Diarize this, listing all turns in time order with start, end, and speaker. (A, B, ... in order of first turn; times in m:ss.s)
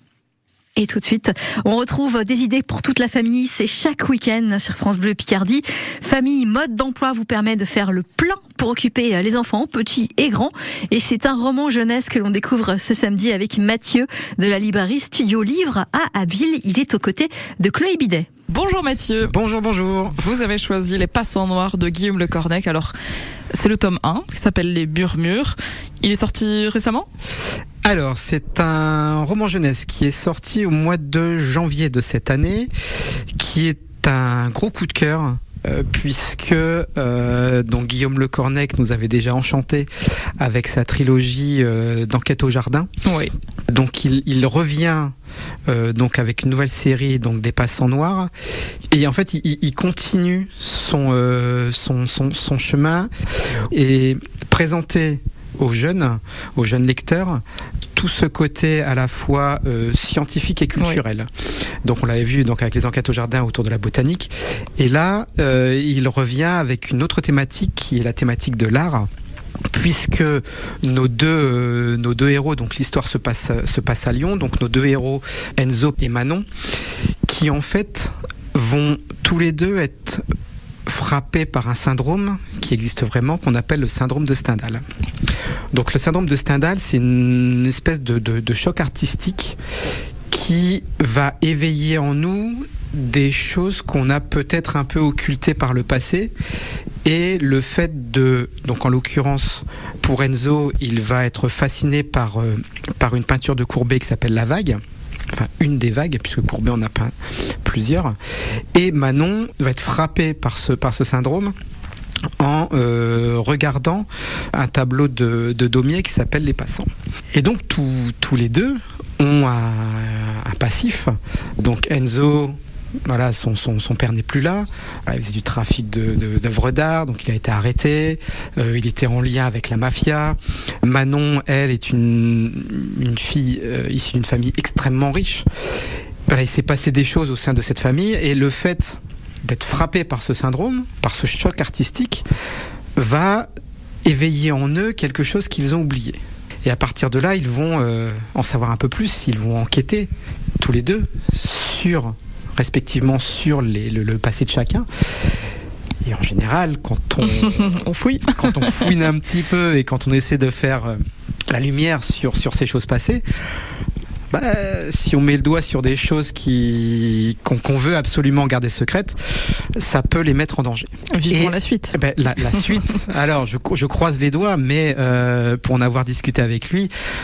0:00.8-0:18.3 A
0:18.5-0:19.3 B
0:19.2-0:20.2 C
0:20.2-0:22.9 B
0:23.5-0:27.1 B
0:27.8-0:32.7 C
0:33.4-0:42.9 C
0:43.0-0:43.3 B
0:43.7-0:45.1 C
0:45.7-0:48.3 C
0:48.9-0:53.1 C
0:53.7-0:57.4 C
0:58.0-1:01.3 C
1:01.8-1:09.1 C
1:09.7-1:16.5 C
1:17.3-1:20.2 C
1:20.9-1:24.8 C
1:25.7-1:29.6 C
1:30.3-1:36.3 C
1:37.0-1:44.8 C
1:45.3-1:48.2 C
1:48.7-1:51.5 C
1:52.4-2:15.5 C
2:16.3-2:22.2 C
2:23.0-2:23.5 C
2:24.0-2:34.9 C
2:36.0-2:41.0 C
2:37.2-2:39.0 B
2:41.5-2:43.2 C
2:44.3-2:56.9 C
2:51.1-2:52.0 B
2:52.5-2:52.8 B